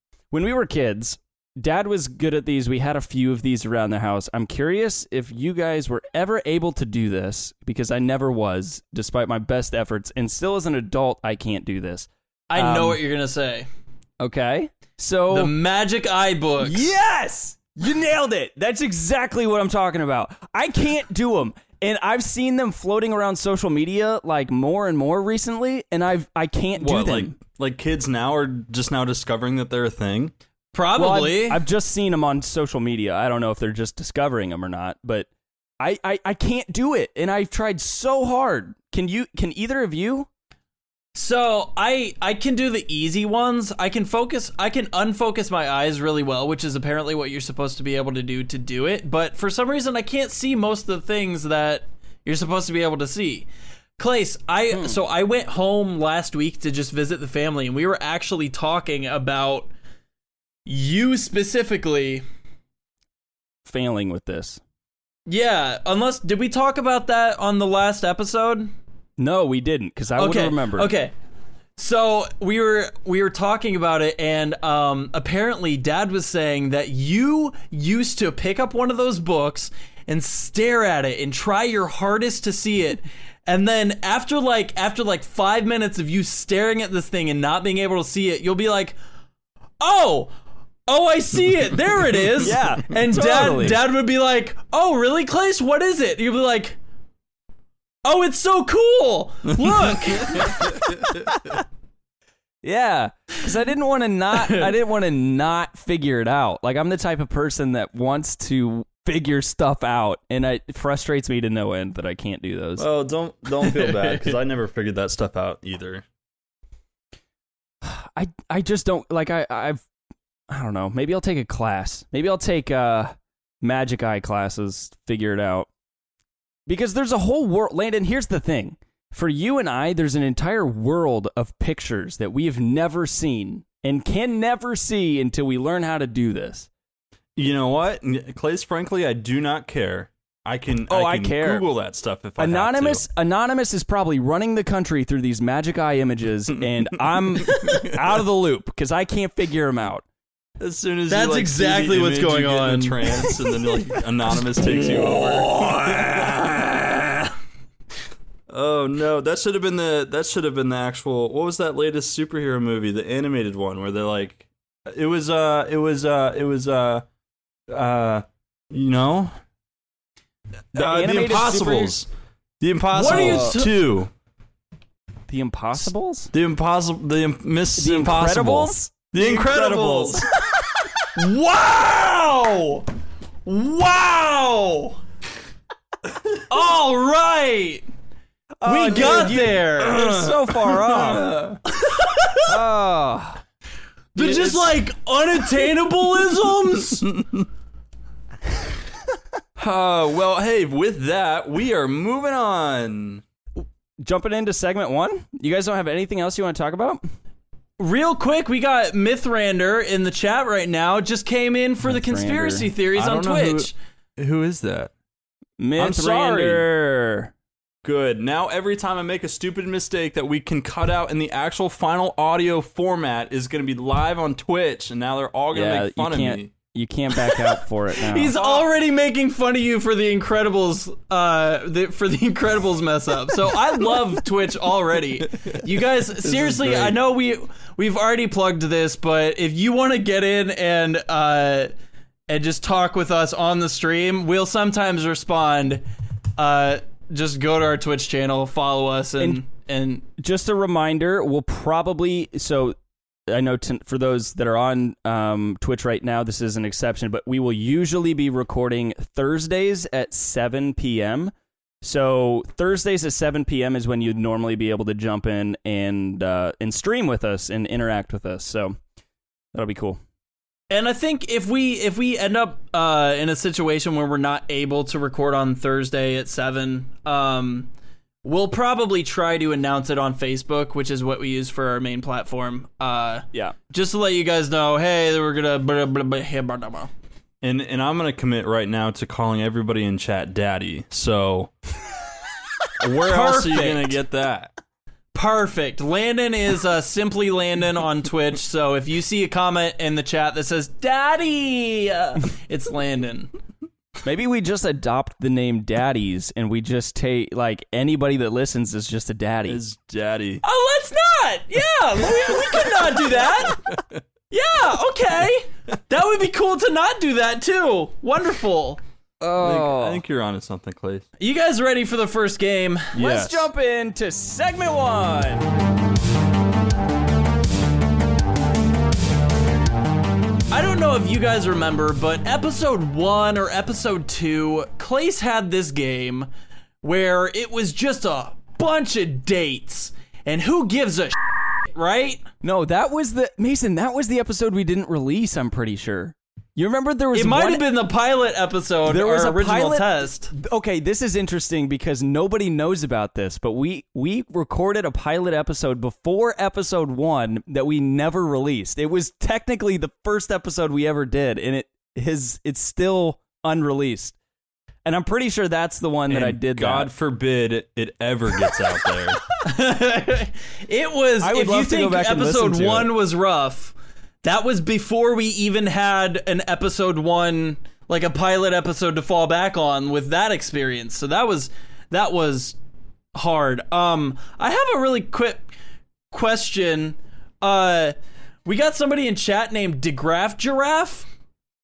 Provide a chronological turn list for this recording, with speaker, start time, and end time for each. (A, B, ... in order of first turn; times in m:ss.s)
0:00.3-0:13.0 A
0:12.5-0:13.7 B
0:14.2-0:15.5 A
0:15.3-0:16.9 B
0:16.6-0:27.4 A
0:26.8-0:30.3 C
0:30.7-0:31.6 B
0:31.0-0:35.3 A
0:35.8-0:40.3 A
0:41.1-0:53.5 B
0:54.0-0:59.7 B
0:54.7-0:55.0 A
1:00.7-1:02.2 B
1:03.6-1:04.6 A
1:05.3-1:08.7 B
1:09.2-1:10.9 A
1:10.2-1:11.1 B
1:11.8-1:29.0 B
1:29.8-1:30.3 B
1:30.9-1:36.8 B
1:32.4-1:33.8 A
1:38.0-1:40.6 B
1:40.2-1:41.5 C
1:41.3-1:41.6 A
1:42.6-1:52.8 A
1:44.4-1:44.7 B
1:52.8-1:56.0 C
1:53.6-1:54.3 B
1:57.8-1:59.8 A
2:00.5-2:05.7 A
2:06.7-2:16.7 A
2:17.4-2:23.1 C
2:20.9-2:21.7 A
2:22.4-2:30.0 A
2:27.4-2:28.0 C
2:30.6-2:36.5 C
2:31.1-2:33.3 B
2:34.7-2:37.3 B
2:38.5-2:47.1 C
2:47.7-2:49.3 C
2:50.7-2:52.1 C
2:50.7-2:51.9 A
2:52.6-2:54.1 C
2:52.9-2:53.7 B
2:53.0-2:53.6 A
2:55.3-2:56.3 A
2:56.3-3:00.3 C
2:57.8-2:58.9 A
2:59.2-3:00.2 B
3:01.2-3:02.9 B
3:03.4-3:05.0 B
3:06.5-3:07.8 B
3:08.6-3:11.6 A
3:08.6-3:10.0 B
3:08.9-3:11.6 C
3:11.7-3:12.5 B
3:12.4-3:13.4 A
3:14.2-3:17.1 B
3:14.2-3:14.7 C
3:16.9-3:17.4 C
3:19.6-3:23.2 C
3:24.0-3:27.0 A
3:27.8-3:33.7 B
3:31.8-3:32.7 A
3:32.9-3:34.9 C
3:35.6-3:37.3 A
3:35.8-3:36.7 C
3:37.8-3:46.5 C
3:45.5-3:48.4 A
3:48.0-4:01.7 B
3:48.4-3:48.7 C
3:56.2-3:57.0 C
4:02.3-4:05.8 B
4:06.4-4:10.0 B
4:10.2-4:12.8 A
4:13.3-4:28.8 A
4:29.5-4:30.0 A
4:30.7-4:37.7 B
4:38.2-4:46.9 B
4:47.4-4:51.5 C
4:52.8-4:54.5 C
4:53.0-4:54.0 B
4:55.1-5:03.3 B
5:04.0-5:09.6 A
5:09.5-5:10.4 C
5:10.4-5:13.6 B
5:13.4-5:14.0 C
5:14.3-5:18.8 B
5:19.2-5:20.0 A
5:19.4-5:21.0 C
5:21.2-5:23.0 B
5:22.9-5:23.5 C
5:22.9-5:25.5 A
5:30.5-5:36.3 B
5:36.8-5:41.2 B
5:41.7-5:42.2 B
5:42.4-5:47.6 A
5:47.1-5:50.3 B
5:48.8-6:04.2 A
6:04.8-6:06.9 A
6:06.1-6:09.2 C
6:09.4-6:22.6 B
6:11.2-6:12.9 A
6:23.2-6:25.5 B
6:26.1-6:27.9 B
6:28.4-6:31.1 B